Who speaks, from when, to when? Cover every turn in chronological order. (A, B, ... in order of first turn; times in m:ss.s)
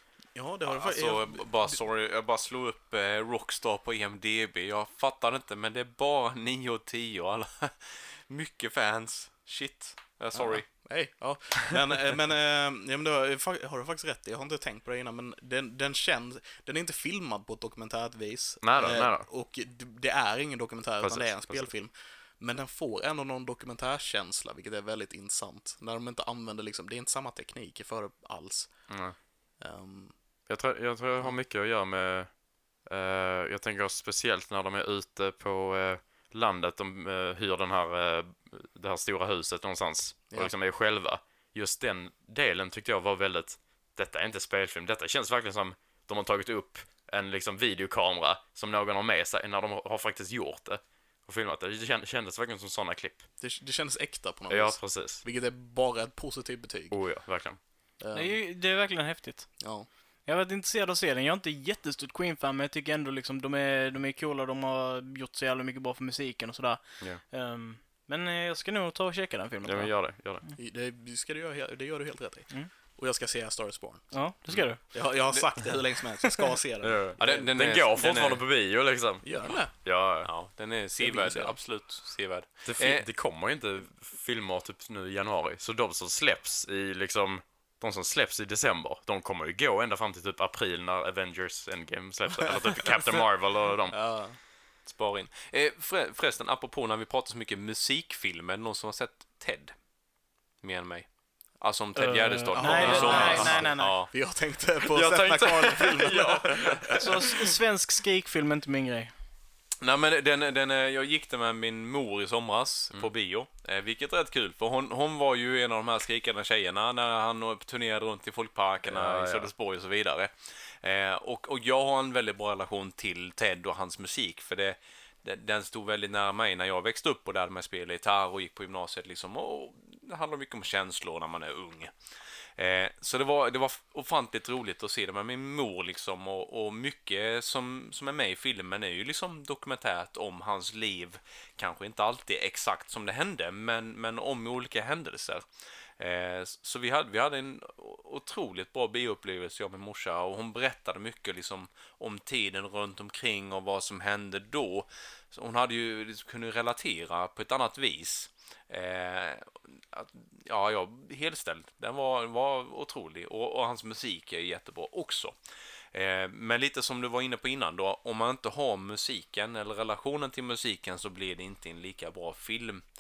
0:00.4-0:01.8 A
0:00.7-0:10.7 B
0:10.4-0:28.7 A
0:18.6-0:19.3 C
0:21.0-0:21.7 C
0:28.9-0:29.2 C
0:29.6-0:30.1 A
0:30.5-0:53.2 C
0:53.4-0:57.0 A
0:54.5-0:55.2 C
0:56.9-0:57.6 C
0:58.0-0:58.4 A
0:58.1-0:59.6 D
0:59.6-0:59.9 A
1:00.2-1:09.9 D
1:09.6-1:10.4 C
1:10.6-1:14.1 A
1:14.1-1:14.8 D
1:14.9-1:17.5 A
1:16.8-1:20.3 C
1:17.2-1:18.4 B
1:19.2-1:19.7 A
1:20.2-1:23.1 B
1:21.0-1:21.6 A
1:22.7-1:34.0 C
1:32.4-1:33.2 A
1:33.9-1:34.4 A
1:34.9-1:39.8 B
1:40.6-1:44.1 B
1:42.0-1:44.0 D
1:42.5-1:47.0 A
1:42.8-1:43.6 C
1:44.9-1:47.2 C
1:47.0-1:49.1 D
1:49.8-2:11.9 B
1:58.9-1:59.5 C
2:12.6-2:25.4 B
2:26.0-2:45.3 B
2:45.9-2:52.8 B